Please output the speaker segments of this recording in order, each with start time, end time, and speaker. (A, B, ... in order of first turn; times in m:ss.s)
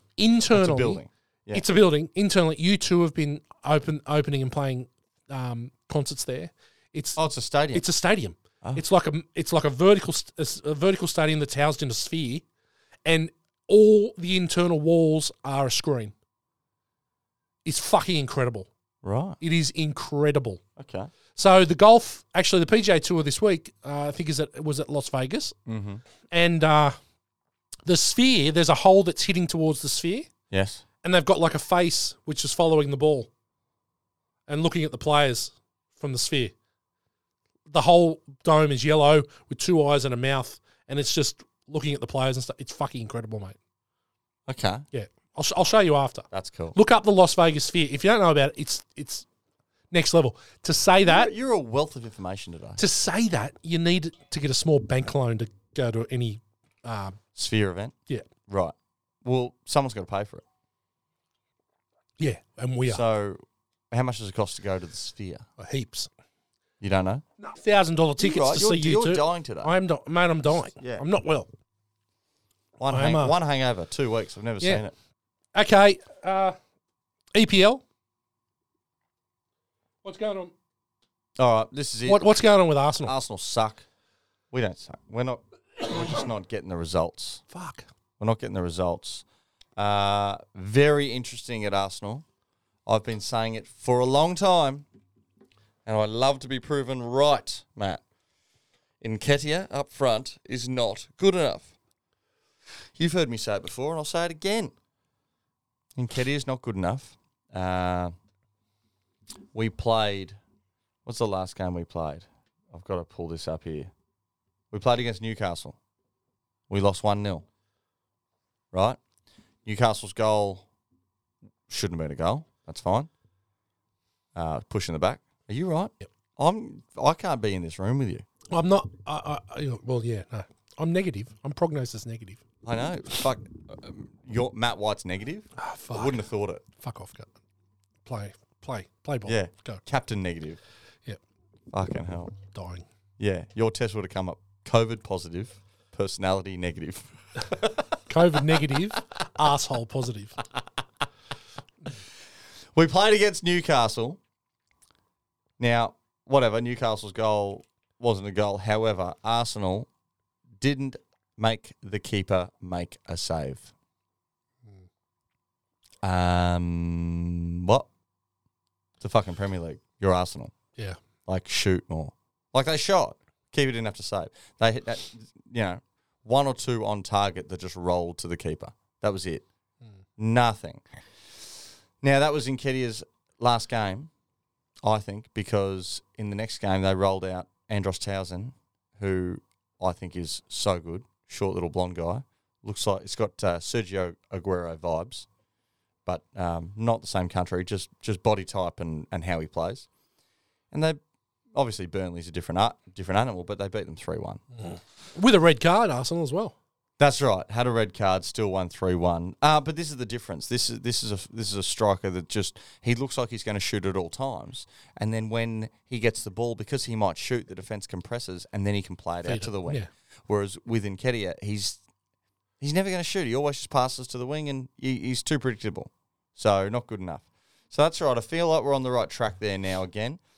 0:00.2-0:07.2 A
0:00.5-0:01.6 B
0:07.2-0:07.8 B
0:07.7-0:12.4 A
0:13.0-0:16.1 A
0:17.6-0:18.7 A
0:19.0-0:19.4 B
0:19.4-0:20.6 A
0:20.8-0:21.1 B
0:21.4-0:25.6 A
0:25.7-0:26.0 B
0:26.3-0:27.0 A
0:27.9-0:30.3 A
0:30.5-0:30.8 B
0:31.0-0:33.3 A
0:34.5-0:36.5 A
0:37.7-0:43.6 A
0:44.5-0:44.8 B
0:44.9-0:49.3 A
0:46.3-0:46.8 B
0:49.9-0:51.3 A
0:51.0-0:52.8 B
0:52.8-0:57.2 A
0:57.4-0:58.0 B
0:58.5-1:00.4 B
1:02.2-1:03.0 A
1:02.9-1:05.5 B
1:05.6-1:06.1 A
1:06.8-1:07.2 B
1:07.4-1:11.5 A
1:08.2-1:09.7 B
1:10.7-1:11.0 B
1:12.8-1:14.9 B
1:12.9-1:13.4 A
1:15.6-1:16.6 A
1:17.3-1:17.8 A
1:20.0-1:20.5 A
1:21.4-1:22.2 B
1:22.1-1:23.1 A
1:23.0-1:23.8 B
1:24.5-1:27.4 B
1:27.5-1:27.9 A
1:28.2-1:29.2 B
1:29.8-1:32.2 B
1:32.9-1:34.9 B
1:35.9-1:38.0 B
1:39.0-1:41.8 B
1:43.0-1:44.7 B
1:46.0-1:48.1 B
1:49.5-1:50.4 B
1:51.0-1:53.9 B
1:54.7-1:55.8 B
1:56.7-1:57.5 B
1:58.7-1:59.0 B
1:59.6-2:00.6 B
2:01.7-2:03.1 B
2:04.4-2:08.2 B
2:08.5-2:12.4 A
2:12.6-2:16.6 B
2:15.6-2:16.2 A
2:16.8-2:17.3 A
2:18.0-2:19.8 A
2:19.3-2:20.6 B
2:21.7-2:22.3 B
2:22.5-2:22.9 A
2:23.2-2:28.7 B
2:28.1-2:30.4 A
2:32.8-2:34.2 B
2:35.6-2:39.9 B
2:40.6-2:43.7 B
2:46.0-2:47.9 B
2:49.0-2:50.5 B
2:51.3-2:59.4 B
3:00.2-3:04.1 B
3:04.8-3:15.3 B
3:16.1-3:19.9 B
3:20.7-3:21.0 B
3:21.5-3:24.4 B
3:24.6-3:26.6 A
3:27.0-3:41.8 B
3:39.2-3:39.9 A
3:42.6-3:50.2 B